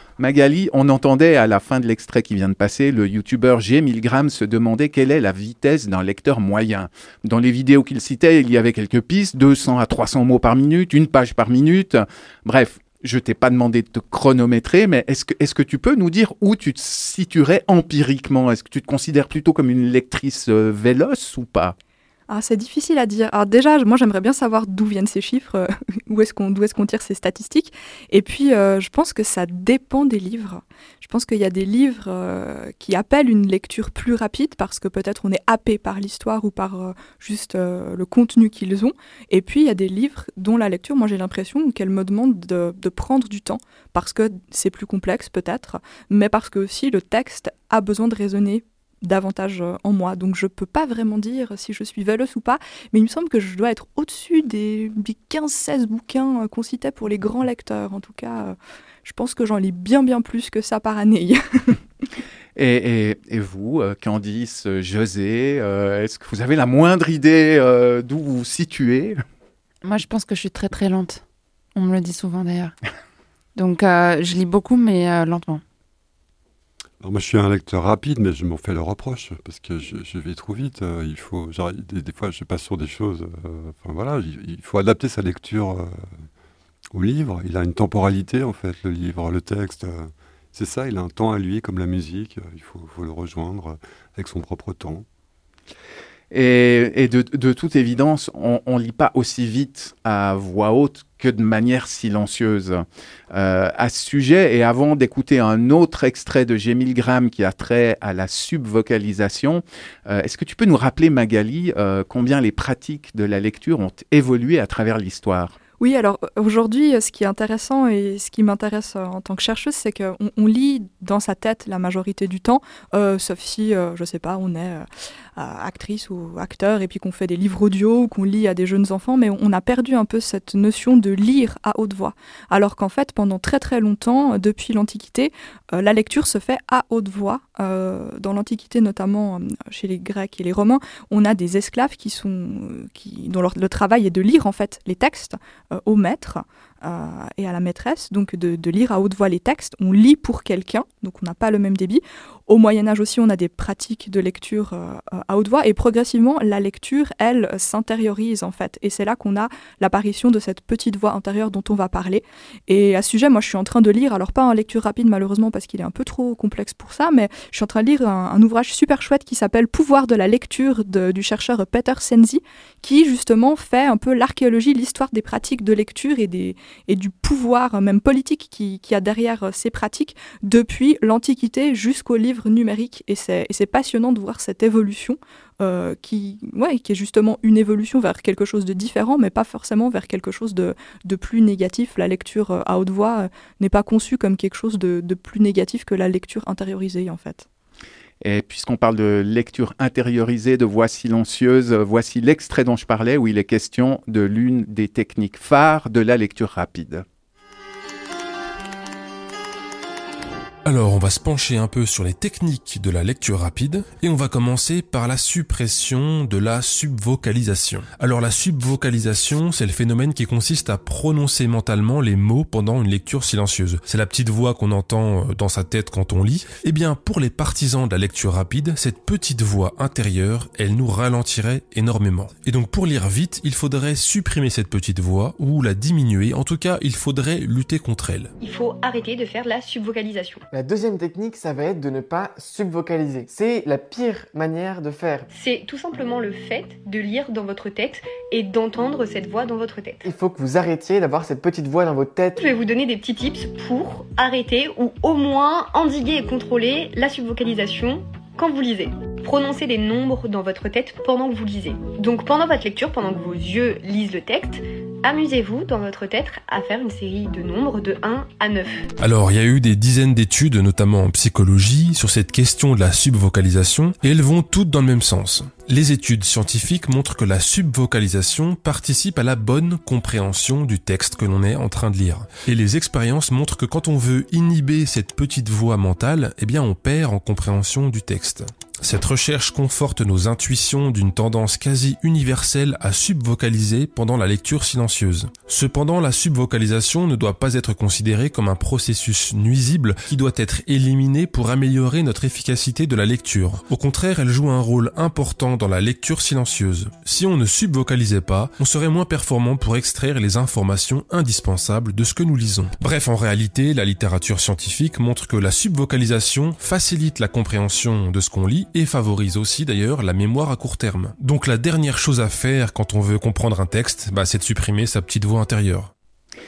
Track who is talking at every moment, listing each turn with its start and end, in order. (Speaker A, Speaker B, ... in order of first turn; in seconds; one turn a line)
Speaker A: 0.2-21.7
Speaker B: 22.3-61.7
Speaker A: 62.5-69.2
Speaker C: 69.8-71.2
Speaker C: 71.7-72.7
Speaker C: 73.5-75.6
Speaker D: 77.0-86.2
Speaker D: 86.9-95.0
Speaker A: 96.3-115.5
Speaker B: 115.8-124.8
Speaker B: 125.3-197.4
Speaker A: 198.2-207.0
Speaker E: 210.6-238.3
Speaker F: 238.4-240.4
Speaker G: 240.5-245.3
Speaker F: 245.3-250.0
Speaker G: 250.0-252.4
Speaker F: 252.4-268.9
Speaker E: 269.0-325.9